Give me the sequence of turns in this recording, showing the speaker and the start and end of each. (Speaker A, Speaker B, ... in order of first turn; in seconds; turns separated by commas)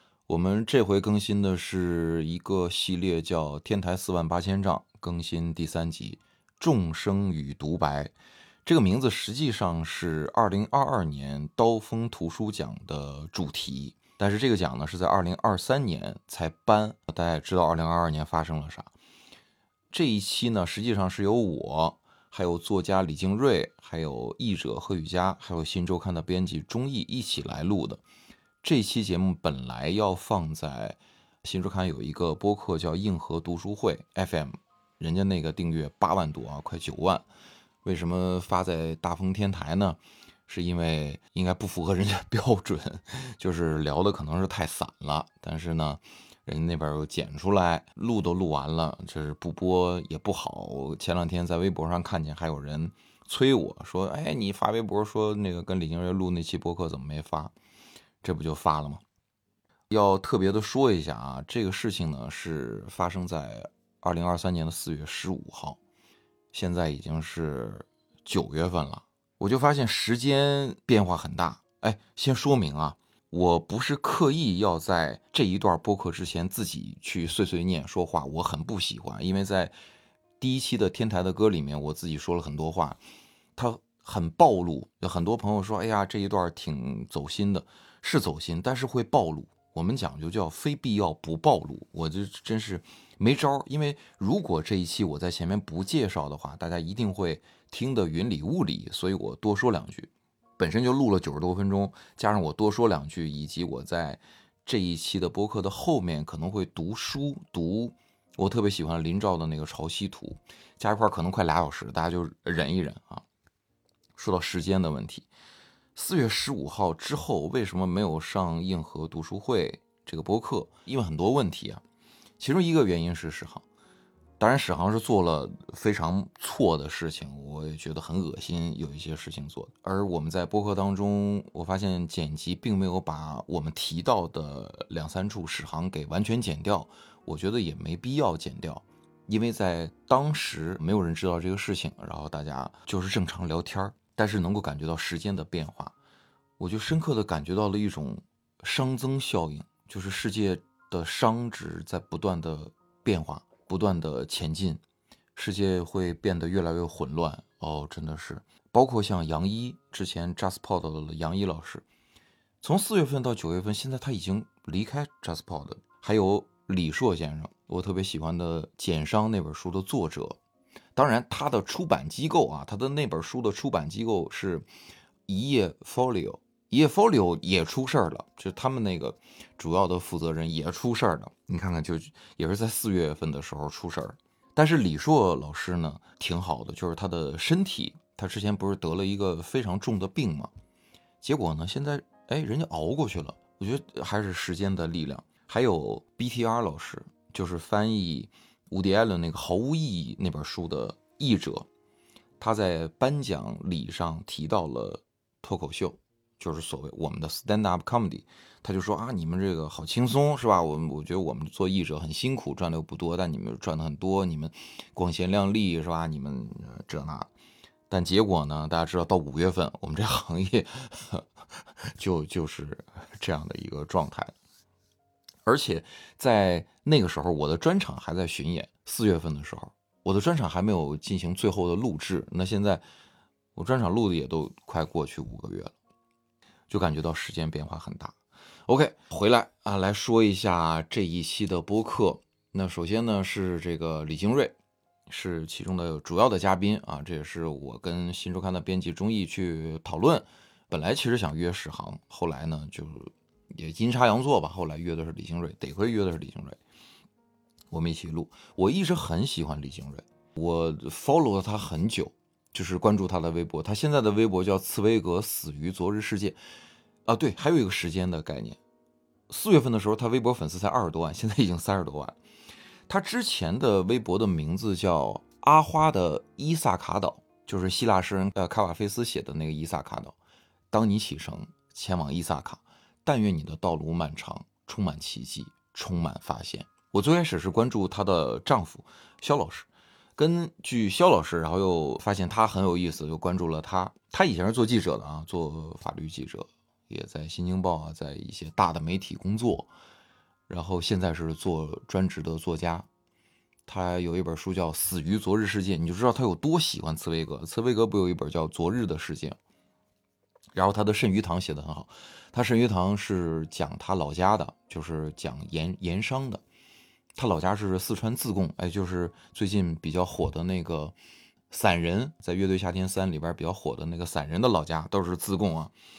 Speaker A: 0.3-8.1, Speaker A: 8.7-18.9, Speaker A: 19.9-28.0, Speaker A: 28.6-37.2, Speaker A: 37.8-57.5, Speaker A: 58.2-59.0, Speaker A: 59.9-65.8, Speaker A: 66.5-79.7, Speaker A: 80.4-83.0, Speaker A: 83.6-113.2, Speaker A: 114.2-115.3, Speaker A: 115.9-121.8, Speaker A: 122.4-123.6, Speaker A: 124.4-145.9, Speaker A: 146.6-154.8, Speaker A: 155.3-161.8, Speaker A: 162.6-170.4, Speaker A: 170.9-174.7, Speaker A: 175.3-190.5, Speaker A: 191.2-201.7, Speaker A: 202.4-217.3, Speaker A: 217.9-221.2, Speaker A: 221.8-224.3, Speaker A: 225.4-232.8, Speaker A: 233.6-235.7, Speaker A: 236.7-244.6, Speaker A: 245.1-256.6, Speaker A: 257.7-266.4, Speaker A: 267.1-268.6, Speaker A: 269.3-272.2, Speaker A: 272.9-280.1, Speaker A: 280.7-299.7, Speaker A: 300.5-302.9, Speaker A: 303.7-309.4, Speaker A: 310.5-316.4, Speaker A: 317.1-320.9, Speaker A: 321.5-325.7